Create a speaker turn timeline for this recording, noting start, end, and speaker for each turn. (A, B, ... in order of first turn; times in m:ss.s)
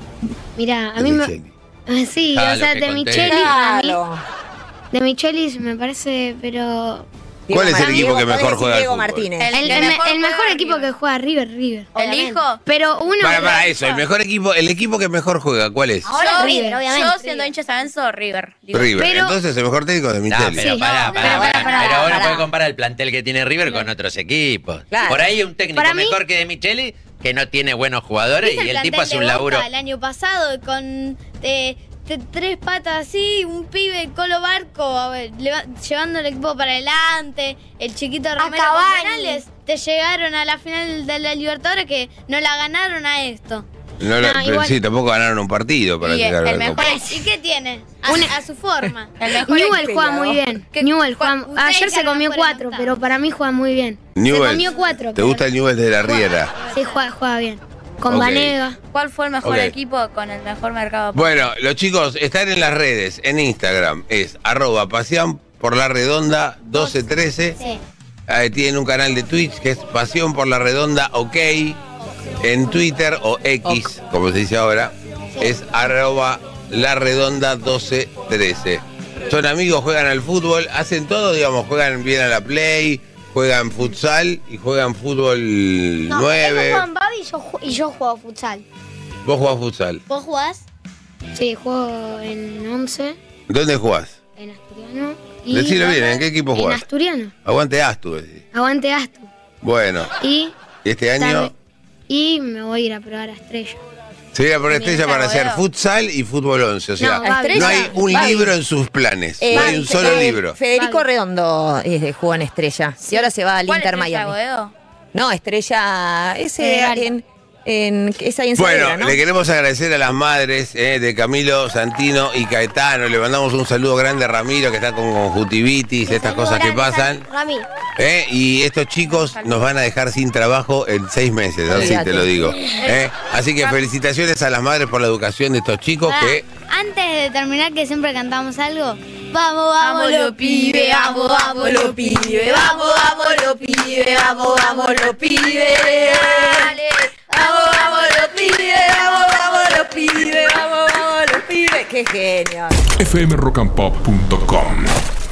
0:00.6-0:01.3 A
0:01.0-0:01.5 B
0:01.9-0:04.0 A
0:02.3-0:03.6 C
0:03.2-0:04.2 D
0:04.9-0:07.1 A
0:07.5-0:09.9 D
0:07.5-0:09.3 B
0:09.4-0:10.9 E
0:09.5-0:11.9 A
0:11.9-0:12.4 F
0:12.0-0:12.6 E
0:12.6-0:13.7 A
0:13.2-0:16.1 B
0:16.1-0:17.5 F
0:16.2-0:19.1 E
0:16.3-0:16.8 A
0:18.7-0:20.8 B
0:18.9-0:19.4 A
0:20.3-0:29.7 C
0:20.5-0:22.4 A
0:21.0-0:21.8 E
0:21.2-0:22.4 D
0:24.9-0:25.3 D
0:25.7-0:26.2 A
0:28.4-0:43.6 G
0:38.4-0:39.4 F
0:44.0-0:46.9 B
0:44.2-0:44.7 A
0:46.0-0:47.0 E
0:46.8-0:49.1 G
0:48.0-0:48.4 A
0:49.2-0:49.9 E
0:49.4-0:55.4 A
0:49.6-0:50.4 D
0:50.7-0:51.4 E
0:51.4-0:53.0 G
0:54.1-0:56.6 B
0:56.0-0:57.0 G
0:56.6-0:58.8 A
0:58.1-0:58.6 B
0:58.9-1:01.3 E
0:59.4-0:59.7 B
1:01.1-1:07.6 B
1:06.7-1:06.9 G
1:08.3-1:11.8 B
1:12.4-1:26.8 B
1:26.1-1:28.6 F
1:29.2-1:30.0 B
1:30.1-1:30.6 G
1:31.3-1:33.2 A
1:33.5-1:34.2 B
1:34.4-1:37.3 A
1:35.5-1:36.8 B
1:37.4-1:38.4 B
1:38.5-1:39.3 A
1:39.6-1:40.1 B
1:40.2-1:40.5 A
1:40.8-1:41.5 B
1:41.2-1:41.5 A
1:42.1-1:43.8 A
1:44.3-1:50.6 B
1:44.7-1:45.6 E
1:47.0-1:48.5 A
1:47.2-1:48.5 D
1:49.4-1:54.3 D
1:49.5-1:51.0 A
1:53.0-1:54.7 E
1:55.1-1:59.2 D
1:56.6-1:57.0 A
1:58.6-2:07.2 B
2:06.0-2:07.6 F
2:08.0-2:16.4 B
2:09.1-2:09.7 E
2:11.7-2:12.5 D
2:12.8-2:13.9 E
2:16.0-2:22.4 G
2:19.8-2:30.4 E
2:21.2-2:26.8 D
2:27.3-2:32.8 D
2:33.0-2:35.0 H